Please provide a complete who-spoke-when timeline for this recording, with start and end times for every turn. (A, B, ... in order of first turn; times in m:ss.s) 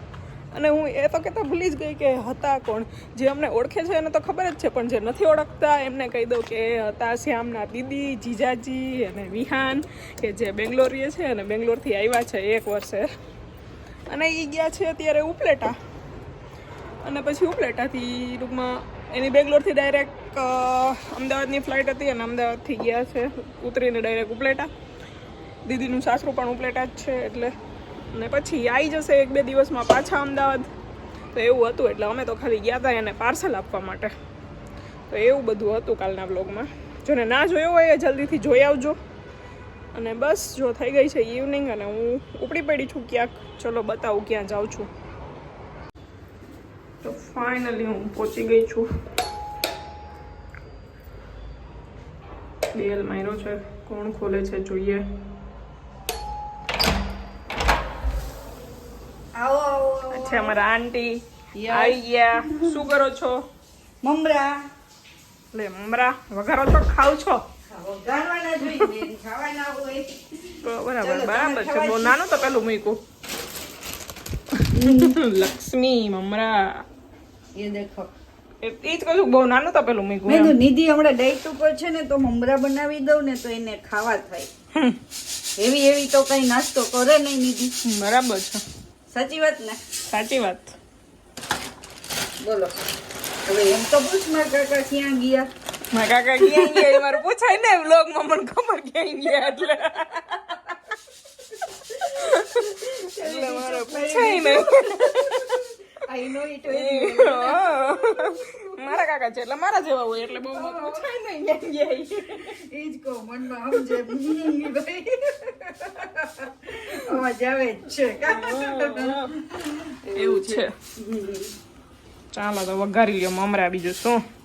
0:00.5-0:13.1 A
0:14.1-0:15.8 A
0:17.0-0:24.7 A
0:25.6-0:27.5 A
0:28.1-0:30.7 A
0:31.3-0:34.1 A
0:35.1-0:39.0 A
0:39.9-0:44.9 A
0:47.0-0:48.9 A
0:52.7-0:55.0 A
0:59.3-1:00.6 B
1:00.1-1:03.4 A
1:01.6-1:02.8 B
1:04.0-1:04.6 B
1:05.5-1:07.4 A
1:07.7-1:12.3 B
1:10.6-1:13.0 A
1:14.5-1:16.8 A
1:14.7-1:15.2 B
1:17.5-1:18.1 B
1:18.6-1:20.5 A
1:20.2-1:24.5 B
1:25.6-1:27.7 B
1:27.8-1:28.6 A
1:29.1-1:29.8 B
1:30.1-1:30.7 A
1:32.4-1:32.8 B
1:33.4-1:35.5 B
1:35.9-1:40.7 A
1:36.4-1:37.0 B
1:41.9-1:45.7 A
1:42.0-1:49.0 B
1:46.7-1:52.6 A
1:50.5-2:01.5 B
1:58.2-1:59.4 A
2:00.1-2:00.7 A
2:02.3-2:04.2 A